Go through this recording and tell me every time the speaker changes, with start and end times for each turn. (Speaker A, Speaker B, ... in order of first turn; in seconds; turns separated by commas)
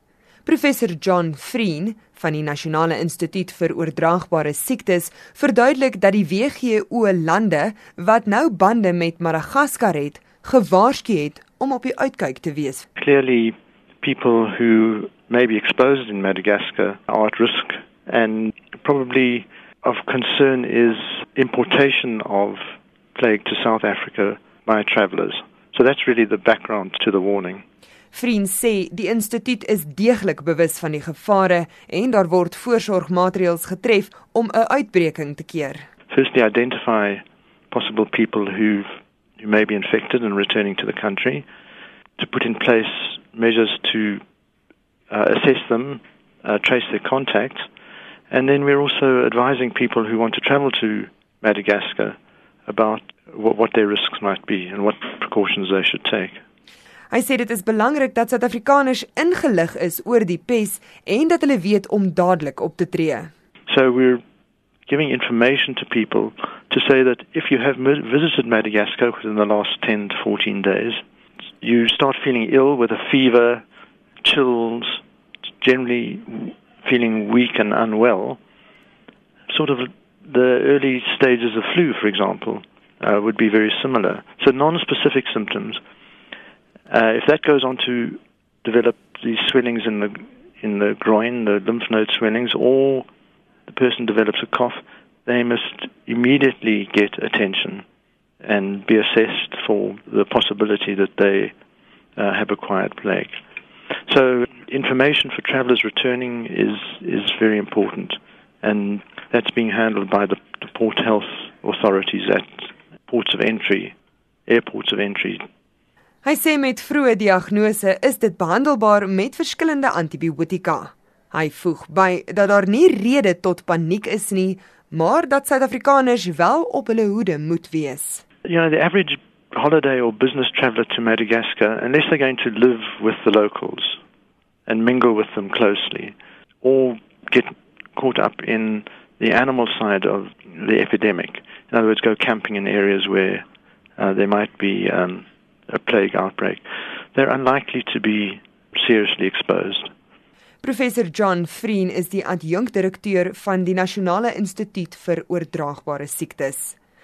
Speaker A: 0.5-12.9, Speaker B: 13.0-22.6, Speaker B: 23.1-27.6, Speaker A: 28.1-35.9, Speaker B: 36.1-38.9, Speaker B: 39.4-41.5, Speaker B: 42.2-44.2, Speaker B: 45.1-47.7, Speaker B: 48.3-56.4, Speaker A: 57.1-63.3, Speaker B: 63.7-64.2, Speaker B: 64.9-71.0, Speaker B: 71.6-73.6, Speaker B: 74.2-75.0, Speaker B: 75.6-78.4, Speaker B: 79.5-85.8, Speaker B: 86.9-93.1, Speaker B: 93.7-97.8, Speaker B: 98.4-101.5, Speaker B: 102.2-103.4, Speaker B: 104.1-114.0, Speaker B: 114.5-115.5, Speaker A: 116.2-128.2, Speaker B: 128.4-134.0, Speaker B: 134.7-143.4, Speaker B: 144.0-149.9, Speaker A: 150.6-156.8